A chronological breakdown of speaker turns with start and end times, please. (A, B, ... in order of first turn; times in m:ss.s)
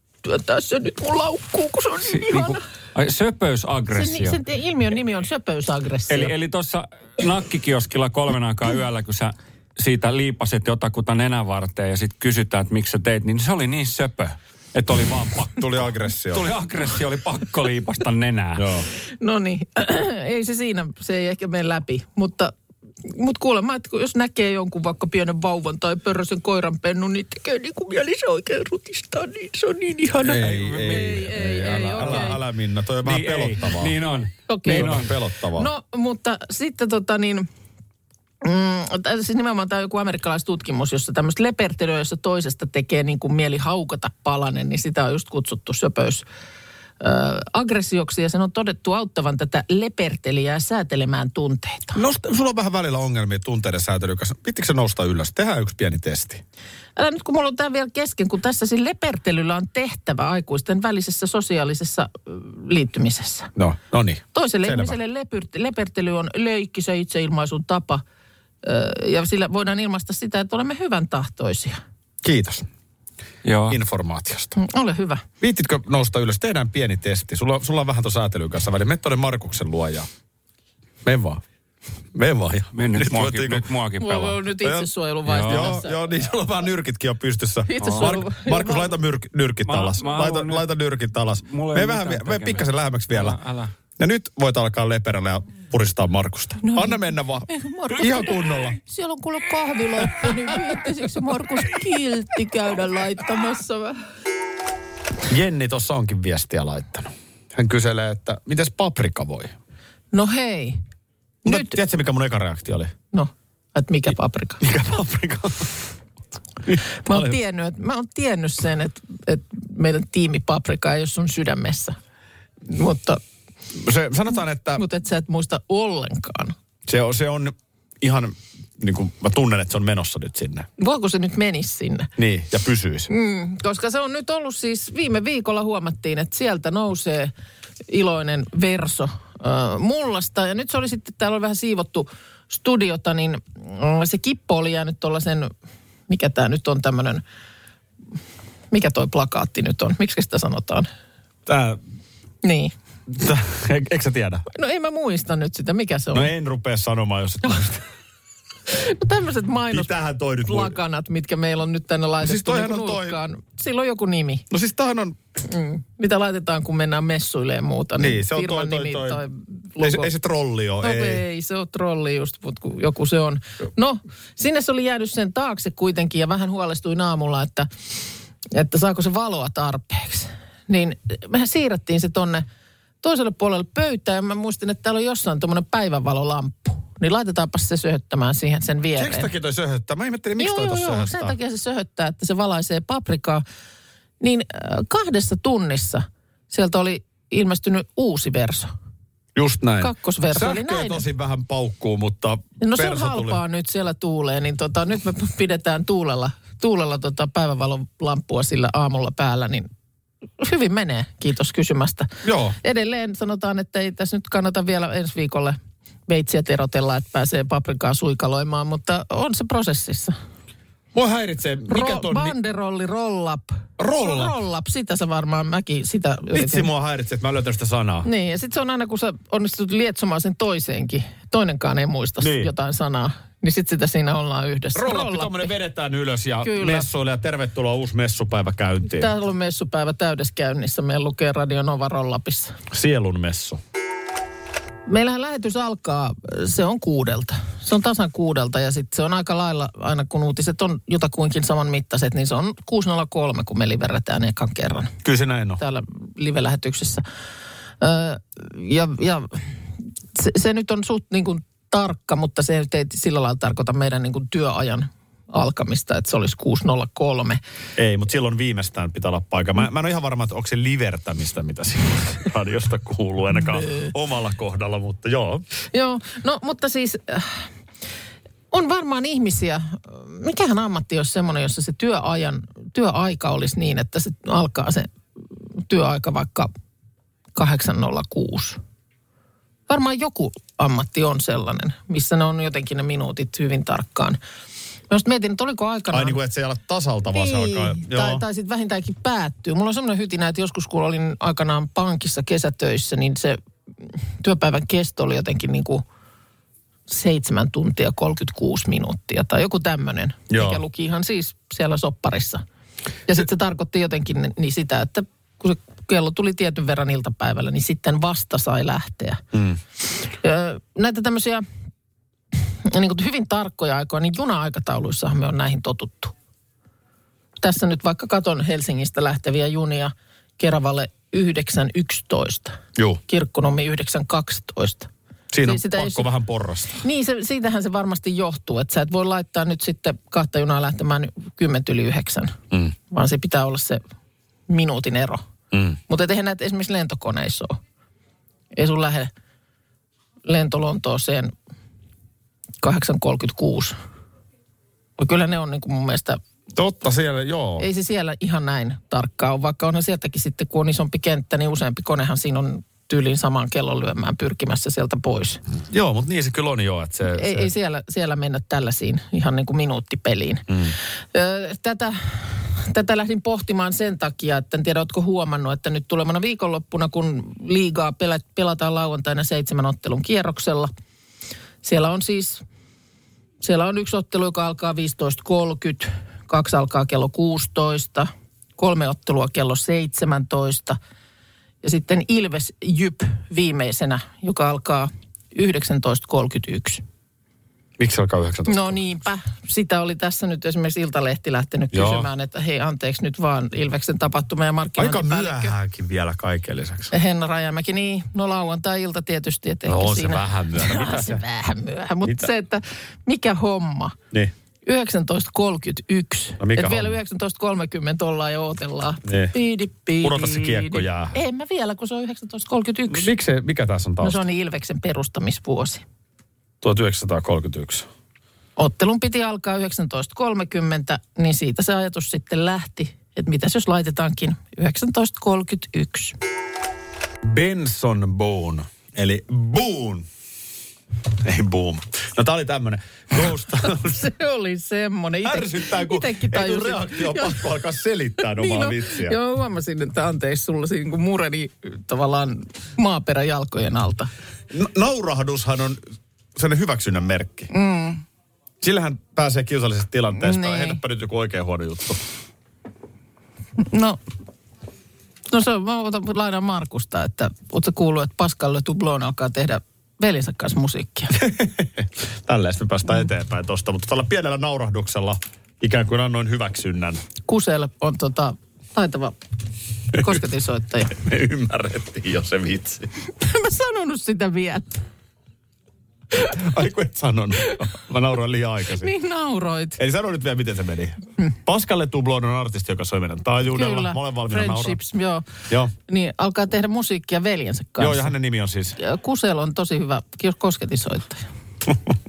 0:00.2-0:02.6 A
0:02.0-0:04.4 B
0:03.9-0:06.3 A
0:06.1-0:18.8 B
0:15.5-0:16.5 C
0:18.6-0:18.8 C
0:19.2-0:32.4 A
0:30.2-0:34.0 C
0:30.3-0:32.3 B
0:33.0-0:35.1 B
0:34.5-0:37.5 A
0:34.6-0:35.7 C
0:38.4-0:46.2 A
0:47.0-0:52.0 A
0:51.9-0:56.4 C
0:57.0-1:03.5 A
1:03.6-1:05.0 C
1:04.3-1:08.0 A
1:08.6-1:11.8 A
1:12.2-1:12.7 C
1:13.4-1:13.8 B
1:13.7-1:14.6 C
1:14.6-1:15.2 A
1:15.4-1:20.1 C
1:21.0-1:21.4 C
1:22.1-1:23.7 C
1:22.7-1:24.4 B
1:24.0-1:26.3 A
1:24.6-1:24.9 C
1:25.3-1:25.8 B
1:25.4-1:33.4 C
1:27.6-1:28.9 A
1:27.8-1:28.1 B
1:29.6-1:30.6 B
1:31.4-1:33.7 B
1:34.0-1:38.8 C
1:36.6-1:44.0 A
1:45.3-1:49.5 C
1:50.1-1:50.8 A
1:51.4-1:51.8 A
1:51.4-1:52.9 C
1:53.1-1:54.6 A
1:54.6-1:55.8 C
1:56.6-1:57.4 C
1:57.0-2:02.0 A
2:02.7-2:03.2 A
2:03.7-2:04.8 C
2:04.8-2:06.5 A
2:06.8-2:10.7 C
2:10.8-2:12.1 A
2:12.2-2:13.1 C
2:13.1-2:17.3 A
2:17.9-2:25.5 A
2:26.1-2:27.2 A
2:28.7-2:30.9 A
2:31.4-2:31.8 C
2:32.4-2:32.7 A
2:33.1-2:34.4 C
2:34.5-2:36.3 A
2:36.1-2:37.8 C
2:38.7-2:39.9 A
2:39.7-2:40.8 C
2:40.4-2:44.4 A
2:42.2-2:43.2 C
2:44.5-2:45.2 C
2:45.4-2:50.1 A
2:48.0-2:49.2 C
2:49.8-2:51.2 C
2:50.8-2:57.7 A
2:58.5-3:02.4 A
3:03.0-3:09.3 A
3:09.0-3:11.4 C
3:10.4-3:13.4 A
3:14.2-3:18.7 A
3:19.3-3:23.4 C
3:19.8-3:21.0 A
3:22.6-3:29.7 A
3:30.4-3:40.2 A
3:32.2-3:32.6 C
3:40.9-3:42.4 C
3:41.7-3:46.7 A
3:43.8-3:44.3 C
3:46.3-3:48.1 C
3:48.0-3:55.5 A
3:52.2-3:52.5 C
3:54.7-3:59.1 C
3:56.4-3:56.9 A
3:58.9-4:02.6 A
4:02.7-4:03.6 C
4:04.9-4:14.9 A
4:15.0-4:15.6 C
4:15.6-4:17.0 A
4:17.8-4:19.6 A
4:20.1-4:27.4 A
4:27.8-4:35.4 C
4:35.7-4:37.5 A
4:38.5-4:44.9 A
4:45.6-4:46.5 A
4:47.4-4:48.6 A
4:49.7-4:54.2 A
4:54.9-4:56.2 A
4:55.9-4:58.2 C
4:57.1-5:03.4 A
5:04.2-5:05.8 A
5:06.9-5:12.4 A
5:10.3-5:10.6 C
5:13.1-5:19.2 A
5:19.3-5:19.6 C
5:20.1-5:21.4 A
5:22.6-5:26.1 A
5:27.4-5:34.9 A
5:35.3-5:36.8 C
5:35.4-5:36.1 A
5:36.8-5:42.4 A
5:42.9-5:43.8 A
5:44.5-5:45.2 A
5:45.5-5:45.8 C
5:45.9-5:47.6 A
5:48.5-5:49.1 A
5:50.2-5:51.3 A
5:52.6-5:53.8 A
5:55.0-5:56.2 A
5:56.5-5:57.7 C
5:57.6-6:05.4 A
6:05.7-6:07.5 C
6:07.1-6:10.4 A
6:10.5-6:10.7 C
6:11.1-6:20.7 A
6:21.6-6:22.4 A
6:23.4-6:30.8 A
6:31.6-6:36.8 A
6:37.8-6:38.8 C
6:38.5-6:45.5 A
6:41.7-6:42.1 C
6:44.8-6:46.9 C
6:46.9-6:54.0 A
6:49.7-6:51.2 C
6:52.0-6:52.3 C
6:54.6-7:03.1 A
6:56.4-6:57.0 C
6:59.0-6:59.3 C
7:00.0-7:01.2 C
7:02.9-7:04.2 C
7:04.0-7:05.8 A
7:06.6-7:07.9 C
7:08.6-7:16.2 A
7:17.2-7:20.1 C
7:21.1-7:24.1 C
7:23.6-7:27.4 A
7:25.2-7:29.2 C
7:28.2-7:34.1 A
7:34.5-7:35.8 C
7:36.4-7:37.5 C
7:37.5-7:38.0 A
7:38.6-7:42.0 C
7:40.1-7:40.8 A
7:43.6-7:44.0 A
7:45.3-7:51.2 A
7:51.1-7:57.0 C
7:57.2-7:59.2 A
7:59.9-8:00.9 A
7:59.9-8:00.2 C
8:00.9-8:02.9 C
8:03.2-8:04.8 A
8:06.2-8:08.9 C
8:08.8-8:09.8 A
8:09.8-8:14.8 C
8:13.5-8:18.1 A
8:17.8-8:18.8 C
8:18.8-8:21.2 A